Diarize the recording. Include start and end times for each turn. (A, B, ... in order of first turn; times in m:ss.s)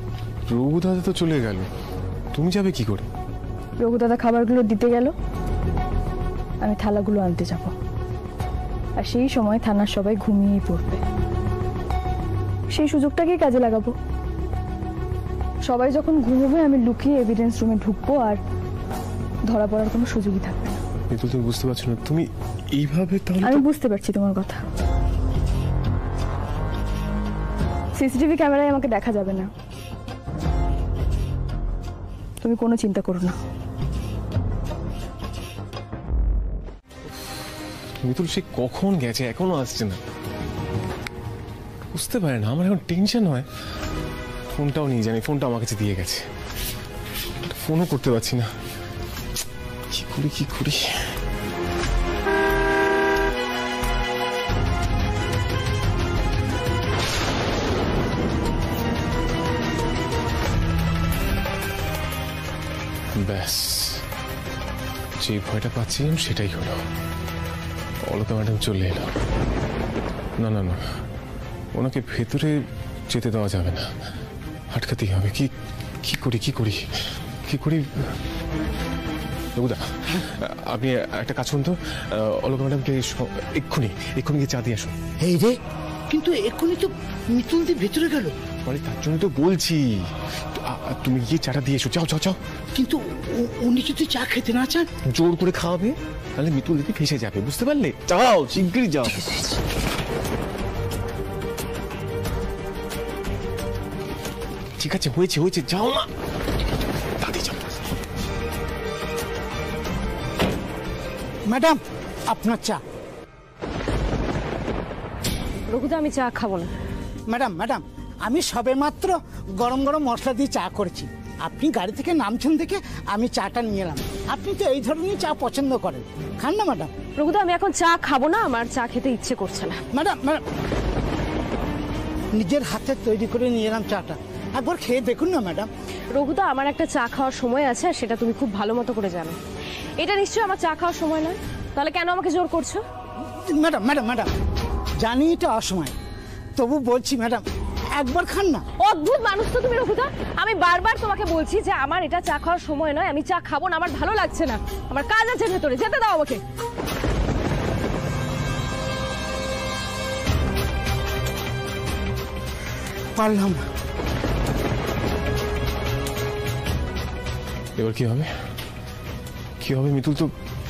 0:00.5-0:01.7 A
0:02.3-0:03.1 A
0:03.8-0:05.1 B
0:06.6-0:07.7 B
0:09.0-0:11.0 B
0:12.7-0:13.9 B
0:15.6-0:18.4 B
0:19.5-0:20.8 B
0:21.1-0:23.6 A
0:23.4-0:24.6 B
0:28.0-0:29.5 B
0:32.4-0:33.4 B
0:38.0-0:40.0 A
0:41.9-0:43.4 A
0:44.5-0:46.2 A
0:47.4-0:48.5 A
0:49.9-0:51.1 A
1:03.2-1:04.0 A
1:05.2-1:06.8 A
1:08.1-1:09.1 A
1:10.4-1:10.8 A
1:11.7-1:13.9 A
1:14.7-1:15.5 A
1:16.0-1:16.8 A
1:17.4-1:17.9 A
1:19.5-1:24.9 A
1:25.2-1:25.6 C
1:26.1-1:28.3 C
1:28.6-1:32.4 A
1:32.8-1:34.9 C
1:35.1-1:39.2 A
1:44.8-1:46.1 A
1:47.2-1:47.9 A
1:51.5-1:51.8 C
1:52.3-1:52.8 C
1:55.7-1:56.7 D
1:57.3-2:06.9 C
2:07.2-2:09.8 D
2:09.9-2:10.4 C
2:12.4-2:15.7 C
2:16.1-2:19.4 D
2:20.0-2:22.8 D
2:23.5-2:24.3 C
2:25.0-2:25.9 C
2:26.6-2:27.4 C
2:28.0-2:28.6 C
2:28.8-2:36.4 D
2:43.2-2:43.6 C
2:47.8-2:48.3 A
2:49.6-2:50.3 A